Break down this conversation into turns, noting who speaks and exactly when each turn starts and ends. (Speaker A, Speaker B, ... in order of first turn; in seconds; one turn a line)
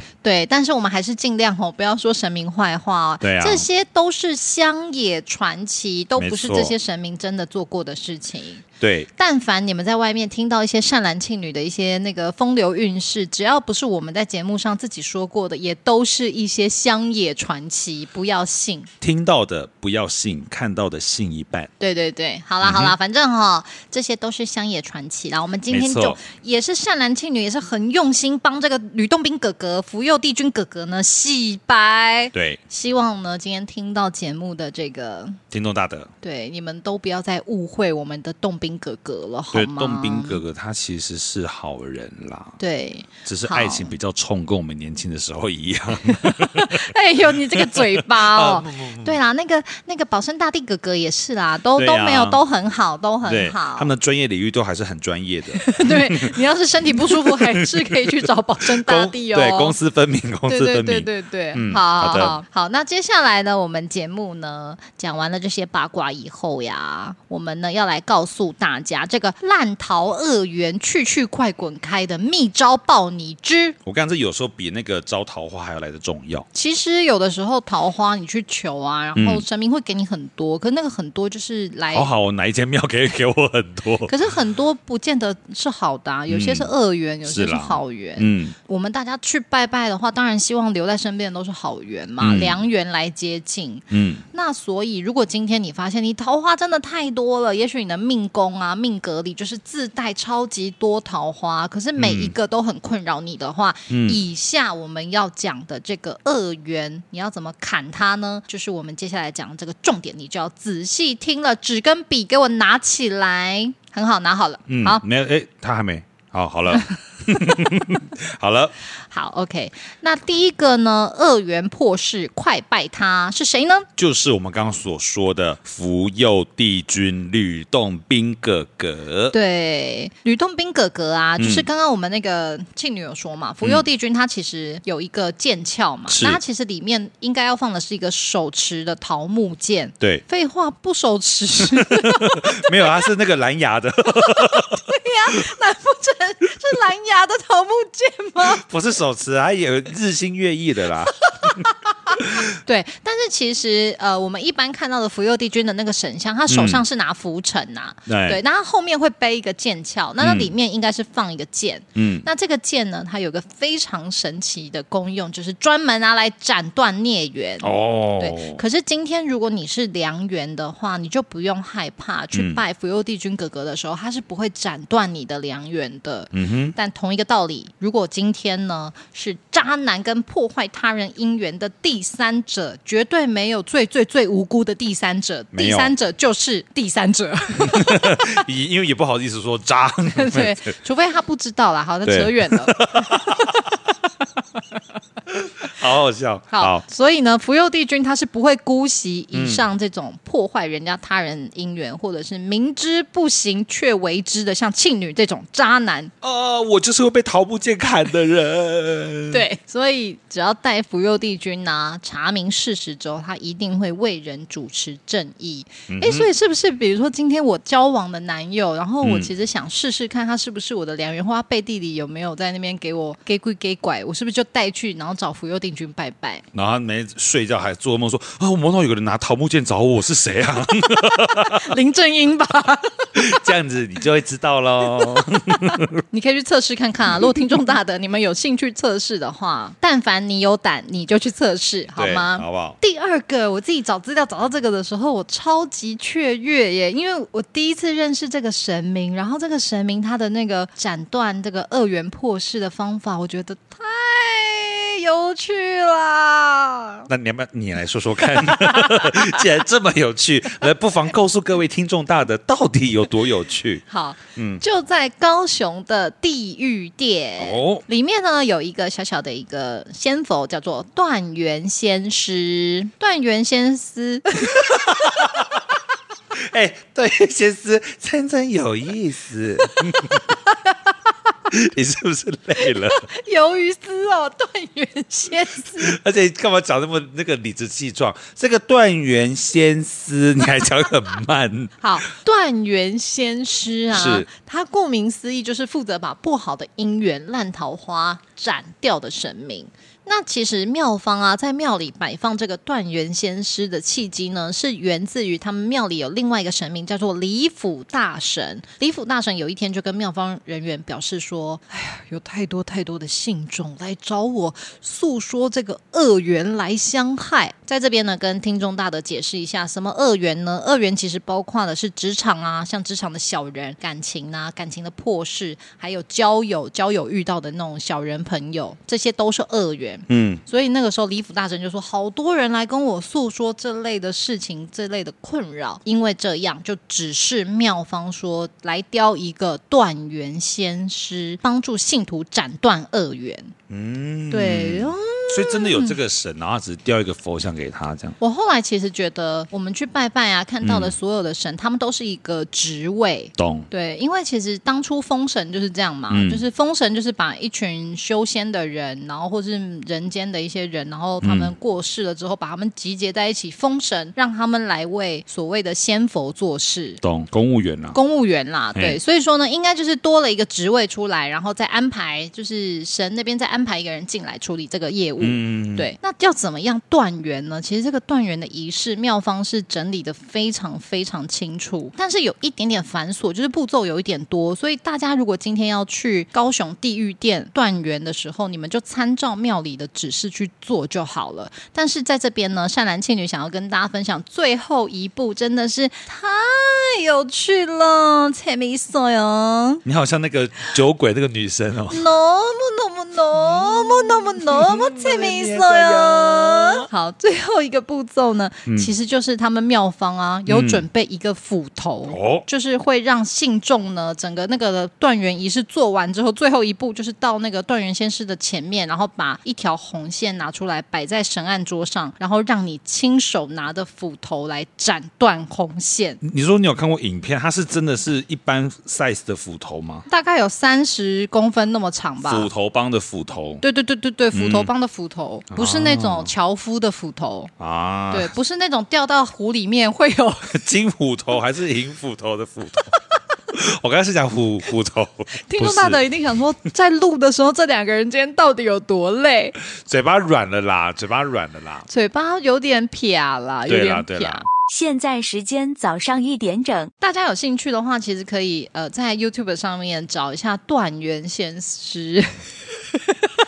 Speaker A: 0.2-8.6
Speaker B: 3.2-3.6
Speaker B: 6.2-6.7
Speaker B: 8.8-9.1
Speaker A: 9.2-18.9
Speaker B: 19.0-21.7
Speaker A: 21.8-35.4
Speaker B: 22.6-22.9
Speaker B: 25.7-26.2
Speaker B: 32.3-32.6
Speaker B: 35.5-36.1
Speaker A: 36.2-40.4
Speaker B: 39.5-42.6
Speaker A: 42.6-43.9
Speaker B: 43.2-46.9
Speaker A: 46.1-53.9
Speaker B: 47.5-49.2
Speaker B: 51.8-52.4
Speaker B: 53.2-56.4
Speaker A: 55.5-59.7
Speaker B: 56.9-62.4
Speaker A: 60.5-73.8
Speaker B: 73.8-76.5
Speaker A: 76.5-82.1
Speaker B: 79.2-79.4
Speaker B: 81.9-84.1
Speaker A: 84.1-115.0
Speaker B: 86.3-86.7
Speaker B: 87.2-88.5
Speaker B: 92.2-92.6
Speaker B: 93.9-94.2
Speaker B: 102.0-102.3
Speaker B: 103.9-104.2
Speaker B: 114.7-118.7
Speaker A: 117.4-117.7
Speaker A: 119.1-123.9
Speaker B: 124.0-129.3
Speaker A: 129.3-143.0
Speaker B: 131.4-131.7
Speaker B: 136.1-136.4
Speaker B: 141.7-145.4
Speaker A: 144.2-148.6
Speaker B: 148.4-151.2
Speaker A: 151.3-188.4
Speaker B: 152.2-152.4
Speaker B: 156.5-156.8
Speaker B: 158.1-158.4
Speaker B: 160.2-160.5
Speaker B: 161.9-162.2
Speaker B: 167.6-168.6
Speaker B: 172.3-172.6
Speaker B: 176.3-176.7
Speaker B: 185.5-185.9
Speaker B: 187.6-190.6
Speaker A: 190.1-193.7
Speaker B: 192.0-193.7
Speaker B: 195.3-196.8
Speaker A: 196.5-206.1
Speaker B: 199.3-199.7
Speaker B: 206.2-209.4
Speaker A: 209.3-226.4
Speaker B: 215.9-216.3
Speaker B: 219.0-219.3
Speaker B: 226.5-231.7
Speaker A: 231.2-233.4
Speaker B: 233.1-236.0
Speaker A: 234.9-257.1
Speaker B: 241.9-242.8
Speaker B: 257.1-264.6
Speaker A: 258.6-259.2
Speaker A: 263.9-274.5
Speaker B: 267.4-267.8
Speaker B: 274.6-275.6
Speaker B: 276.3-280.3
Speaker B: 281.5-283.1
Speaker A: 282.6-286.0
Speaker B: 285.8-291.7
Speaker A: 291.8-343.5
Speaker B: 293.9-294.3
Speaker B: 330.1-330.4
Speaker B: 343.7-348.2
Speaker A: 344.3-345.9
Speaker A: 348.2-367.0
Speaker B: 350.6-350.9
Speaker B: 353.4-353.7
Speaker B: 356.1-356.4
Speaker B: 361.2-361.5
Speaker B: 367.0-367.9
Speaker A: 367.9-399.8
Speaker B: 375.2-375.9
Speaker B: 399.8-402.1
Speaker A: 401.9-426.2
Speaker B: 403.4-406.9
Speaker B: 408.7-408.9
Speaker B: 410.5-410.8
Speaker B: 412.1-412.4
Speaker B: 426.2-430.0
Speaker A: 430.1-432.5
Speaker B: 432.2-433.6
Speaker A: 433.6-437.5
Speaker B: 434.3-434.7
Speaker B: 435.5-436.3
Speaker B: 437.6-438.3
Speaker A: 438.1-440.6
Speaker B: 440.5-442.9
Speaker B: 443.5-446.0
Speaker A: 445.4-449.5
Speaker B: 449.6-451.9
Speaker A: 451.9-454.4
Speaker B: 453.6-454.4
Speaker C: 454.7-456.9
Speaker A: 457.0-463.3